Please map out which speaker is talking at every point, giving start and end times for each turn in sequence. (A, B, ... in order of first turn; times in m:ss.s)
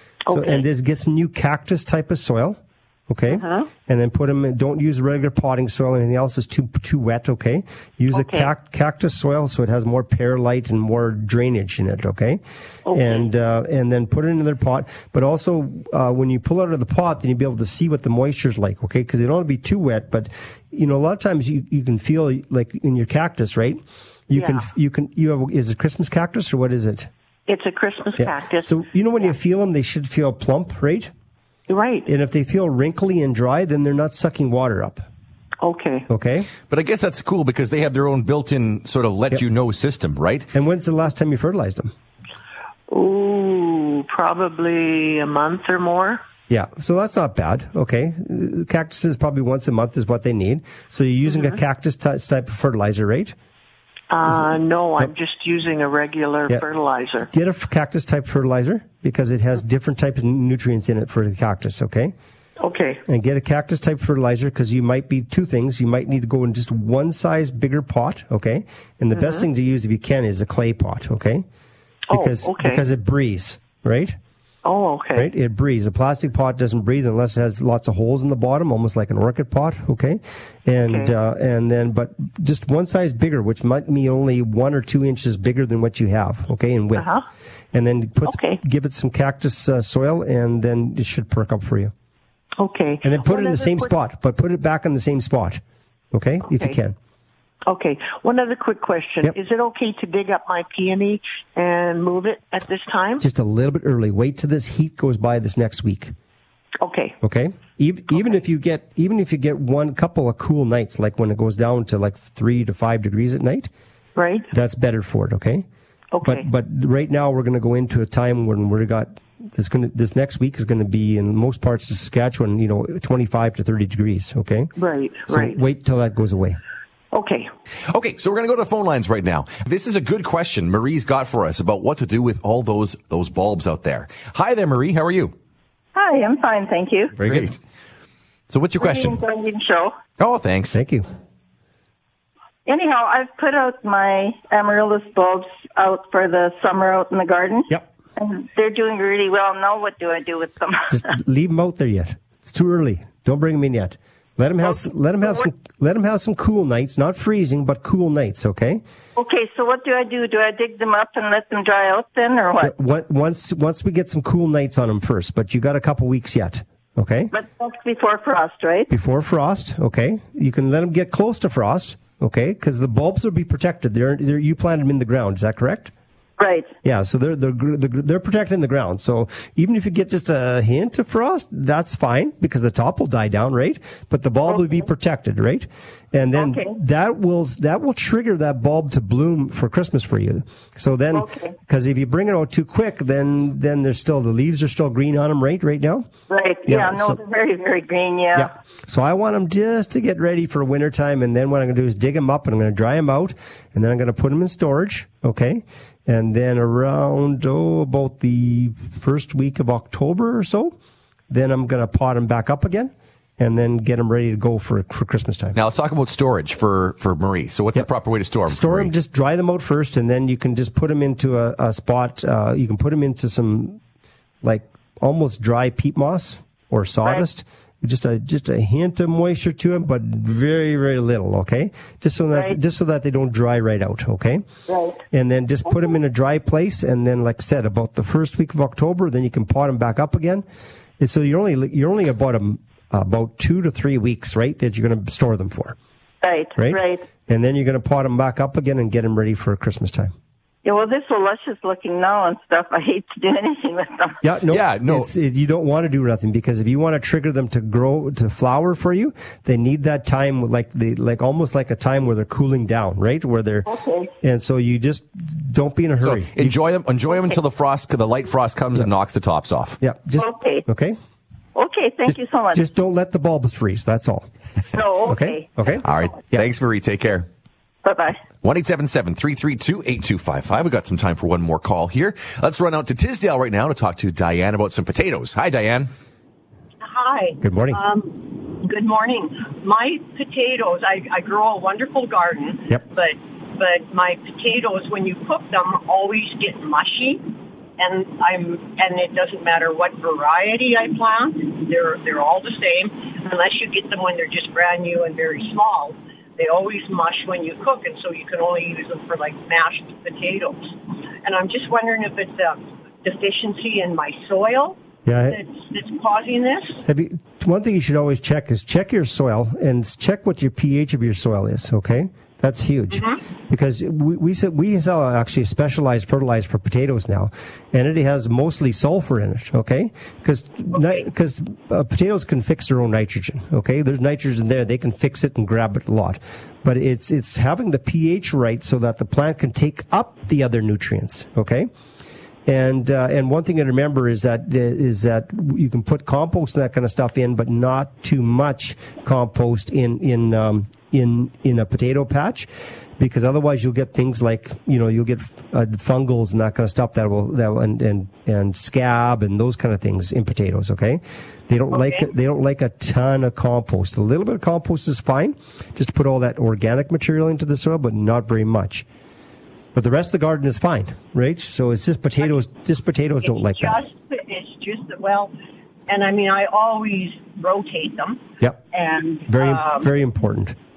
0:00.2-0:00.6 A
0:00.3-0:27.1 B
0:03.3-0:03.7 A
0:08.1-0:08.5 A
0:12.9-0:13.3 A
0:24.3-0:24.6 A
0:27.5-0:28.7 A
0:28.2-0:31.1 B
0:31.7-0:32.1 A
0:32.1-0:35.0 B
0:35.6-0:36.1 A
0:36.1-0:36.5 B
0:36.7-0:40.5 C
0:40.5-0:41.9 B
0:42.9-0:46.2 A
0:46.5-0:53.4 B
0:54.1-0:57.3 A
0:57.3-1:02.2 B
1:02.6-1:03.0 A
1:03.1-1:11.5 B
1:09.1-1:09.5 A
1:12.1-1:12.8 A
1:12.1-1:14.2 B
1:14.6-1:15.3 A
1:15.2-1:27.1 B
1:20.8-1:21.1 A
1:27.0-1:27.2 A
1:27.7-1:31.9 B
1:28.3-1:28.6 A
1:32.6-1:33.9 A
1:33.0-1:35.6 B
1:36.1-1:37.0 B
1:36.5-1:36.8 A
1:37.7-1:43.2 A
1:43.2-1:46.1 B
1:46.8-1:47.2 A
1:47.2-1:53.7 B
1:54.2-1:54.5 A
1:54.5-1:55.7 B
1:56.1-1:56.5 A
1:56.2-2:04.7 B
2:04.8-2:05.6 A
2:05.3-2:06.6 B
2:07.1-2:07.5 A
2:07.9-2:15.3 C
2:16.0-2:17.1 D
2:17.2-2:17.5 B
2:17.2-2:17.6 C
2:18.5-2:19.2 C
2:18.8-2:20.0 D
2:20.2-2:20.8 C
2:20.7-2:21.1 B
2:22.7-2:31.0 D
2:30.9-2:38.8 B
2:39.2-2:42.7 D
2:42.6-2:47.3 B
2:47.3-2:48.9 D
2:48.9-2:55.9 B
2:56.4-2:56.7 D
2:56.8-3:16.1 B
3:06.4-3:06.7 D
3:11.1-3:11.5 D
3:16.3-3:18.5 D
3:16.7-3:17.2 B
3:18.4-3:30.8 B
3:31.3-3:35.6 B
3:35.6-3:38.9 C
3:38.5-3:43.8 B
3:44.4-3:54.4 B
3:54.7-3:55.0 D
3:55.1-4:00.4 B
4:01.0-4:05.8 B
4:06.2-4:07.1 D
4:06.6-4:10.1 B
4:10.6-4:14.2 D
4:14.2-4:23.7 B
4:14.5-4:15.1 C
4:23.7-4:24.1 D
4:24.2-4:26.6 B
4:26.0-4:29.8 C
4:29.8-4:31.0 B
4:30.2-4:30.6 D
4:31.6-4:32.6 D
4:32.1-4:34.3 B
4:34.7-4:35.5 D
4:35.0-4:36.5 B
4:35.8-4:37.3 C
4:37.8-4:38.2 D
4:38.4-4:45.9 C
4:46.8-5:16.8 E
4:47.4-4:47.8 B
5:15.0-5:15.4 B
5:16.8-5:41.7 B
5:22.9-5:23.2 E
5:42.5-6:08.9 B
6:01.7-6:02.1 E
6:09.7-6:13.8 B
6:13.2-6:15.3 E
6:15.9-6:19.9 E
6:19.3-6:20.6 B